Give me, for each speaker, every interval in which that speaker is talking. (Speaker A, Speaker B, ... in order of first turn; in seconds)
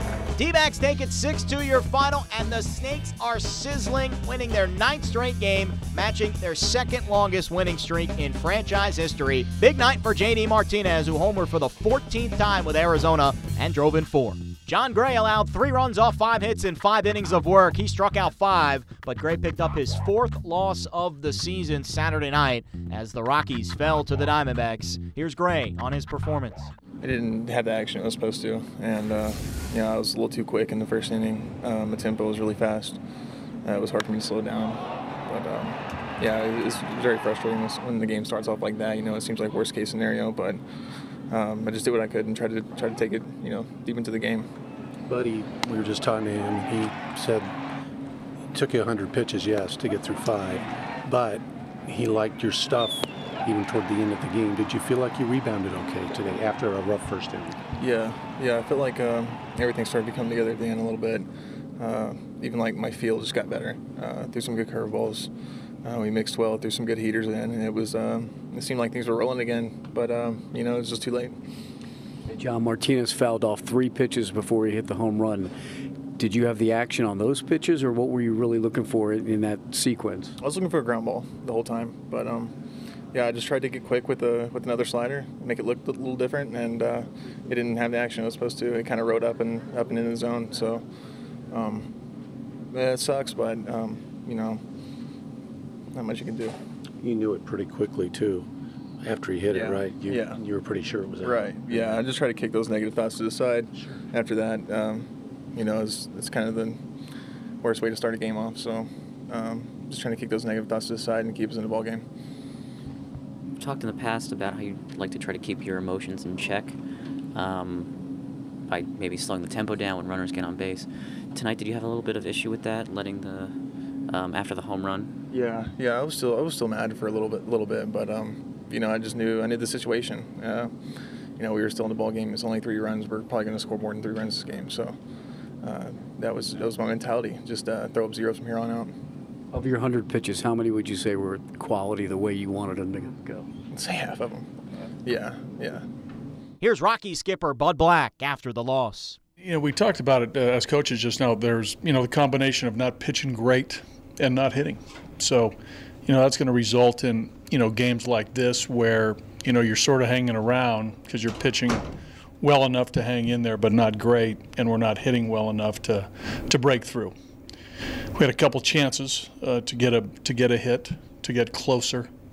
Speaker A: 0.3-26.7, 146.6-149.2
Speaker B: 27.0-33.0, 33.6-40.6, 41.3-44.5, 57.8-65.3, 65.8-71.4, 80.4-82.5, 83.1-90.8, 91.5-91.9, 92.7-94.6, 95.9-96.5, 99.5-100.4, 101.2-106.8, 107.6-112.0, 125.3-130.7, 131.3-135.0, 135.6-138.9, 143.7-144.5, 145.0-145.8
Speaker C: 45.1-47.5, 48.5-57.6, 97.0-98.5, 99.0-102.0
Speaker D: 72.3-75.5, 76.2-80.3, 139.5-143.5
Speaker E: 113.6-116.8, 117.3-117.9, 118.7-123.5, 124.1-125.1
Speaker F: 149.4-161.8, 162.4-167.1, 168.1-172.1